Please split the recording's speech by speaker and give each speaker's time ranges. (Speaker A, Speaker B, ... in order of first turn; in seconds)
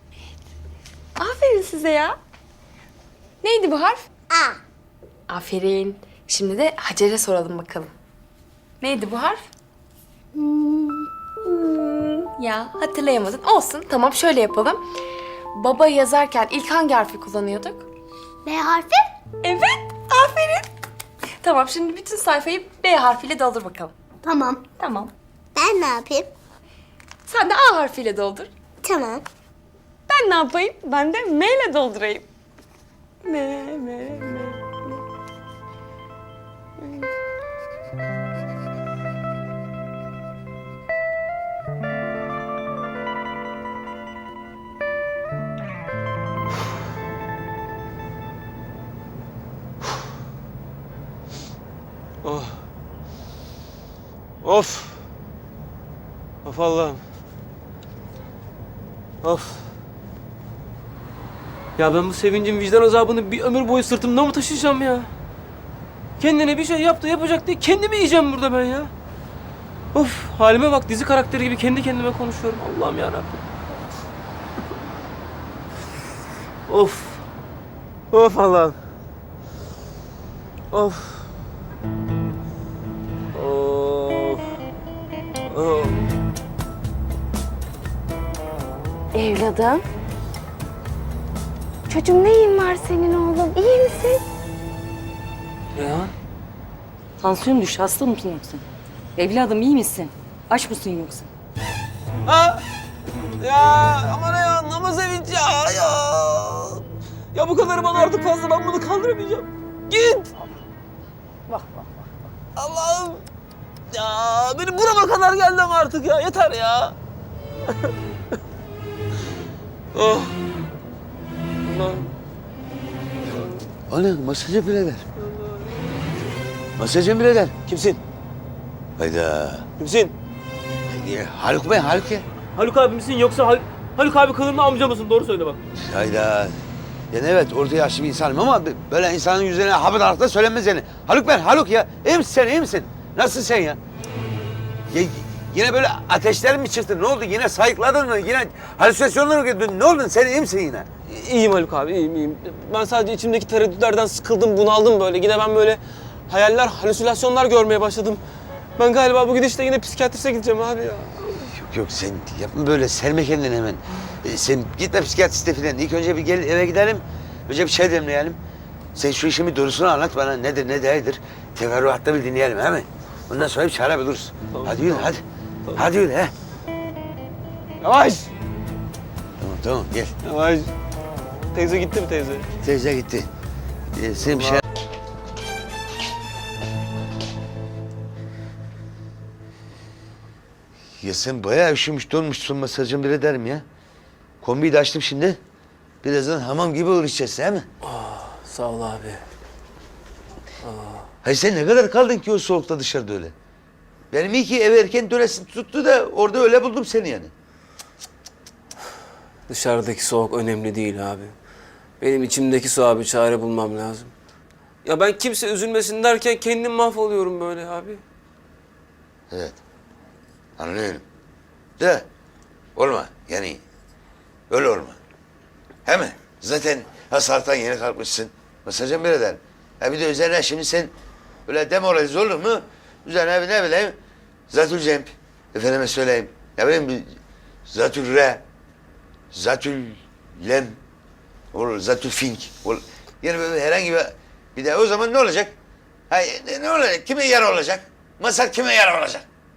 Speaker A: 1.2-2.2, 3.4-4.1, 5.3-7.9, 8.8-9.4, 11.4-14.8, 15.6-17.9, 19.4-20.6, 21.4-23.9, 24.7-25.1, 27.3-28.5, 30.1-32.3, 33.2-34.8, 36.8-37.1, 89.2-89.8, 91.9-94.2
Speaker B: 4.3-4.6, 10.4-11.1, 18.4-19.1, 24.2-24.6, 25.6-26.3, 28.8-29.2
Speaker C: 52.2-52.6, 54.4-55.0, 56.5-57.0, 59.2-59.6, 61.8-65.1, 66.2-68.9, 69.9-73.4, 76.7-77.2, 78.1-78.8, 80.7-81.3, 83.3-84.4, 85.5-86.0, 95.8-96.1, 102.3-102.6, 103.4-110.3, 112.6-113.2, 113.9-117.0, 117.7-118.0, 119.9-120.4, 121.7-122.1, 123.3-123.7, 125.2-125.5, 127.7-128.0, 129.8-130.1, 132.6-135.6, 151.1-158.2, 158.8-161.5, 174.5-175.1, 177.8-178.3, 180.2-180.7, 181.5-182.5, 184.3-184.6, 197.8-199.2, 200.6-201.1, 209.5-211.3, 212.0-214.1, 214.8-218.0
Speaker D: 97.2-98.6, 99.2-101.3
Speaker E: 123.9-125.0, 126.8-127.6, 129.0-129.7, 130.9-132.2, 135.8-143.8, 144.9-150.9, 161.5-168.4, 168.9-175.2, 175.8-176.3, 179.4-180.2, 182.6-183.3, 183.9-184.6, 191.0-193.7, 194.4-195.4, 196.0-197.7, 201.2-203.3, 204.1-207.3, 219.3-219.6, 220.6-221.0, 221.8-222.1, 222.8-223.6, 224.5-225.0, 225.9-230.9, 231.5-234.0, 234.5-237.2, 237.7-238.4, 239.3-240.8, 241.5-245.5, 246.1-249.3